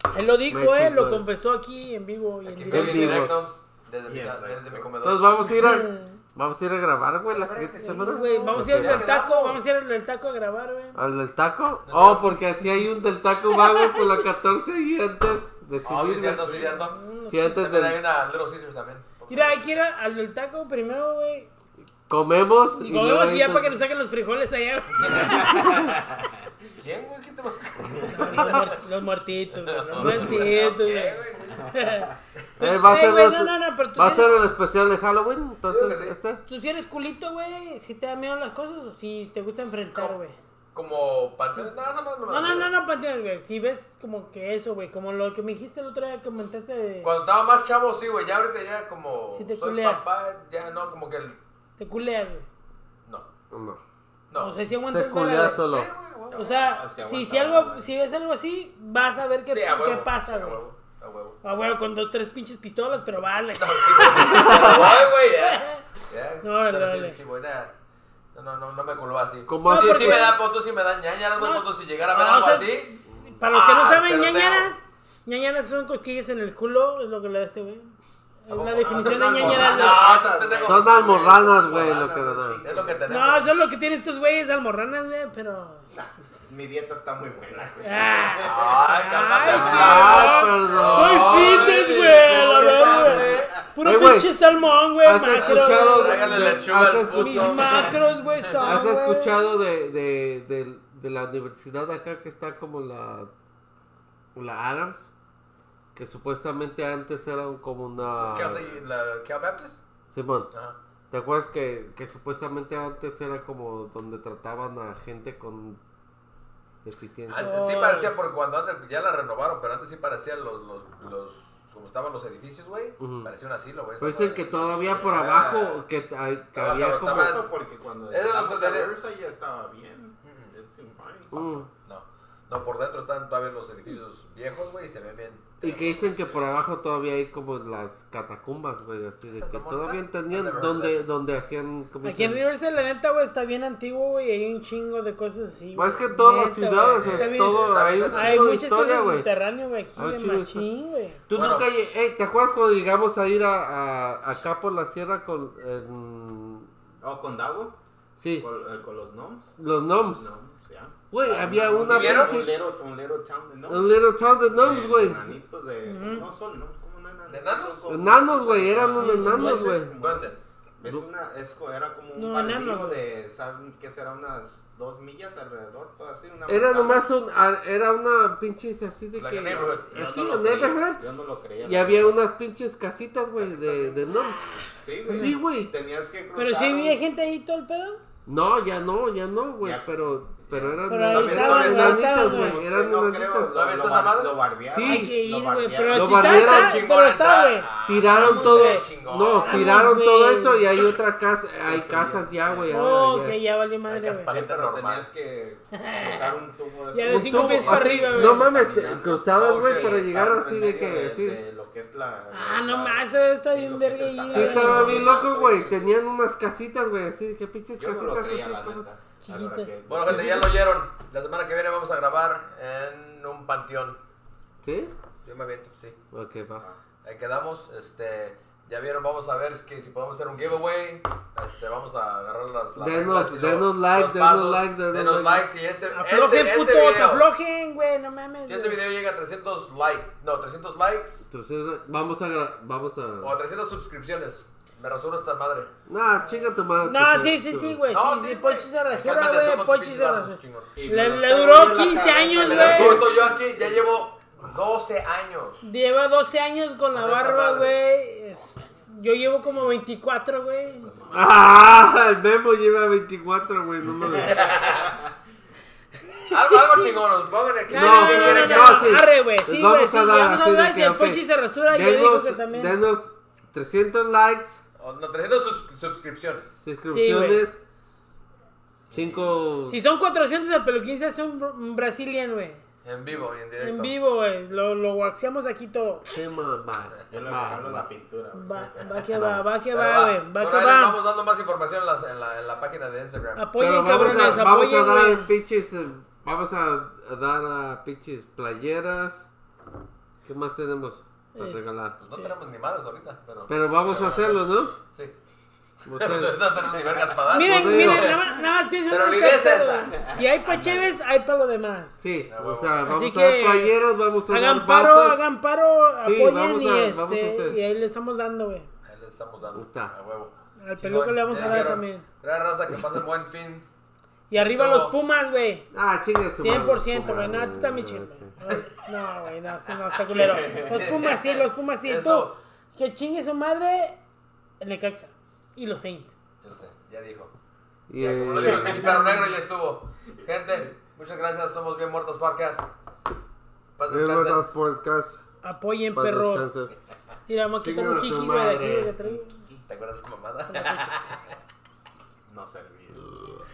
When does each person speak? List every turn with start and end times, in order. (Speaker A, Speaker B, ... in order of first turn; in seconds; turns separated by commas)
Speaker A: 0.1-3.3, Speaker B: 0.5-1.2, Speaker C: 2.5-5.4, Speaker B: 2.7-3.4, Speaker D: 4.0-4.9, Speaker B: 5.0-9.1, Speaker A: 5.4-6.2, Speaker C: 7.3-9.6, Speaker A: 7.8-11.0, Speaker B: 10.9-16.7, Speaker C: 11.8-12.4, Speaker A: 13.6-14.2, Speaker C: 15.8-19.7, Speaker A: 16.7-17.6, Speaker B: 17.3-18.0, Speaker A: 19.3-21.5, Speaker B: 22.1-23.8, Speaker A: 22.8-25.6, Speaker C: 25.0-25.7, Speaker D: 25.3-26.2, Speaker B: 25.4-25.9, Speaker C: 26.8-28.7, Speaker A: 28.1-34.4, Speaker C: 29.5-31.7, Speaker B: 30.0-30.5, Speaker D: 31.5-32.1, Speaker B: 32.6-36.4, Speaker C: 35.7-36.1, Speaker A: 36.5-40.4, Speaker C: 40.7-42.7, Speaker A: 42.3-47.1, Speaker C: 47.0-51.4, Speaker A: 49.3-50.0, Speaker A: 51.8-52.5, Speaker B: 53.5-53.8, Speaker C: 54.3-54.6, Speaker A: 54.4-55.6, Speaker B: 54.9-55.9, Speaker C: 55.6-56.4, Speaker D: 56.3-57.9, Speaker A: 56.3-60.6, Speaker C: 59.5-61.4, Speaker A: 61.4-65.8, Speaker C: 63.6-67.7, Speaker A: 66.4-67.2, Speaker C: 68.3-74.7, Speaker B: 69.5-70.3, Speaker A: 69.6-70.4, Speaker A: 71.4-80.1, Speaker B: 73.1-73.4, Speaker C: 78.5-81.2, Speaker D: 78.8-83.1, Speaker B: 80.6-82.6, Speaker C: 82.6-83.6, Speaker A: 83.1-85.8, Speaker D: 85.9-88.8, Speaker A: 87.8-99.3, Speaker C: 88.4-93.5, Speaker B: 89.4-91.7, Speaker D: 89.5-90.2, Speaker D: 92.7-93.4, Speaker B: 93.8-94.3, Speaker B: 95.0-97.8, Speaker C: 95.3-98.8, Speaker B: 98.6-103.3, Speaker B: 104.3-105.1, Speaker B: 105.9-108.7, Speaker C: 108.2-109.8, Speaker B: 110.1-110.5, Speaker C: 110.5-110.8, Speaker B: 111.1-115.8, Speaker B: 116.8-117.5, Speaker C: 117.3-125.8, Speaker A: 117.4-118.1, Speaker B: 123.0-123.3, Speaker B: 124.0-127.5, Speaker C: 126.5-127.5, Speaker D: 126.6-131.6, Speaker C: 128.1-128.9, Speaker C: 130.2-130.5, Speaker B: 131.3-131.7, Speaker C: 131.8-136.4, Speaker B: 135.6-142.4, Speaker C: 139.3-141.0, Speaker A: 142.0-151.2, Speaker B: 145.7-149.3, Speaker C: 147.0-148.5, Speaker B: 149.9-150.7, Speaker B: 151.3-156.7, Speaker C: 151.3-151.7, Speaker D: 157.0-157.8, Speaker B: 158.2-158.5, Speaker D: 158.3-163.9, Speaker B: 159.6-160.3, Speaker B: 161.1-162.5, Speaker C: 161.7-162.5, Speaker B: 163.7-165.2, Speaker D: 164.5-177.0, Speaker A: 165.8-166.3, Speaker C: 167.3-170.4, Speaker B: 167.9-169.9, Speaker A: 169.0-169.6, Speaker A: 172.1-173.0, Speaker B: 176.5-181.0, Speaker C: 179.1-180.8, Speaker D: 179.5-182.2, Speaker B: 181.6-185.7, Speaker D: 183.4-187.0, Speaker A: 185.1-185.4, Speaker A: 186.3-188.0, Speaker B: 188.2-193.5, Speaker D: 189.6-190.8, Speaker A: 190.9-192.6, Speaker C: 191.1-192.2, Speaker D: 191.9-196.4, Speaker C: 193.5-194.4, Speaker B: 194.7-195.1, Speaker A: 194.8-200.8, Speaker B: 195.9-196.8, Speaker C: 196.1-199.7, Speaker B: 197.8-203.4, Speaker D: 201.6-202.8, Speaker A: 202.7-204.3, Speaker C: 203.9-205.1, Speaker D: 204.0-215.9, Speaker A: 205.7-206.3, Speaker A: 206.9-208.6, Speaker B: 207.0-211.4, Speaker C: 209.3-210.0, Speaker A: 212.3-215.1, Speaker B: 214.3-218.9, Speaker D: 217.8-220.5, Speaker A: 219.2-219.7, Speaker C: 219.9-224.0, Speaker B: 220.1-220.4, Speaker B: 224.6-224.9, Speaker C: 225.2-226.0, Speaker B: 226.1-226.6, Speaker C: 227.0-237.3, Speaker B: 232.8-235.5, Speaker A: 235.9-238.8, Speaker C: 238.5-241.2, Speaker B: 241.2-243.3, Speaker C: 243.2-245.7, Speaker B: 245.9-247.8, Speaker A: 246.8-253.0, Speaker C: 247.9-250.7, Speaker D: 250.8-253.8, Speaker B: 251.9-253.0, Speaker C: 252.3-255.6, Speaker A: 255.6-260.9, Speaker C: 256.9-257.8, Speaker D: 258.3-258.9, Speaker D: 260.8-261.3, Speaker B: 261.1-264.4, Speaker C: 264.1-265.0, Speaker D: 264.2-265.1, Speaker A: 266.1-266.9, Speaker C: 266.3-269.1, Speaker A: 267.7-272.8, Speaker B: 267.7-274.6, Speaker C: 274.8-276.6, Speaker B: 276.6-277.6, Speaker A: 276.9-277.4, Speaker C: 278.9-279.4, Speaker B: 278.9-279.8, Speaker A: 279.7-282.6, Speaker C: 282.8-283.9, Speaker A: 283.6-286.1, Speaker B: 286.1-287.9, Speaker D: 287.1-289.0, Speaker A: 288.3-291.0, Speaker B: 289.1-289.4, Speaker C: 289.7-294.4, Speaker A: 293.4-295.3, Speaker B: 293.6-299.3, Speaker B: 300.2-301.9, Speaker A: 301.3-302.3, Speaker C: 302.0-305.1, Speaker B: 303.5-304.8, Speaker B: 305.9-306.4, Speaker C: 305.9-309.9, Speaker A: 307.3-311.9, Speaker B: 307.4-308.1, Speaker D: 309.9-310.9, Speaker B: 312.0-315.2, Speaker C: 312.3-312.9, Speaker A: 312.8-313.8, Speaker A: 314.3-318.7, Speaker B: 316.0-317.6, Speaker C: 318.8-323.6, Speaker B: 319.5-319.9, Speaker A: 320.6-322.0, Speaker A: 324.3-325.7, Speaker C: 324.3-324.9, Speaker B: 325.7-328.3, Speaker A: 326.4-334.0, Speaker C: 330.1-332.4, Speaker D: 330.2-330.9, Speaker A: 334.6-336.2, Speaker C: 336.4-337.3, Speaker B: 337.9-339.1, Speaker C: 338.0-342.6, Speaker D: 338.4-339.2, Speaker C: 343.8-344.4, Speaker B: 343.9-345.2, Speaker A: 345.4-346.5, Speaker B: 345.9-346.7, Speaker A: 347.3-349.3, Speaker B: 347.6-348.9, Speaker D: 349.0-349.6, Speaker C: 349.6-351.3, Speaker A: 350.5-350.9, Speaker D: 352.3-353.2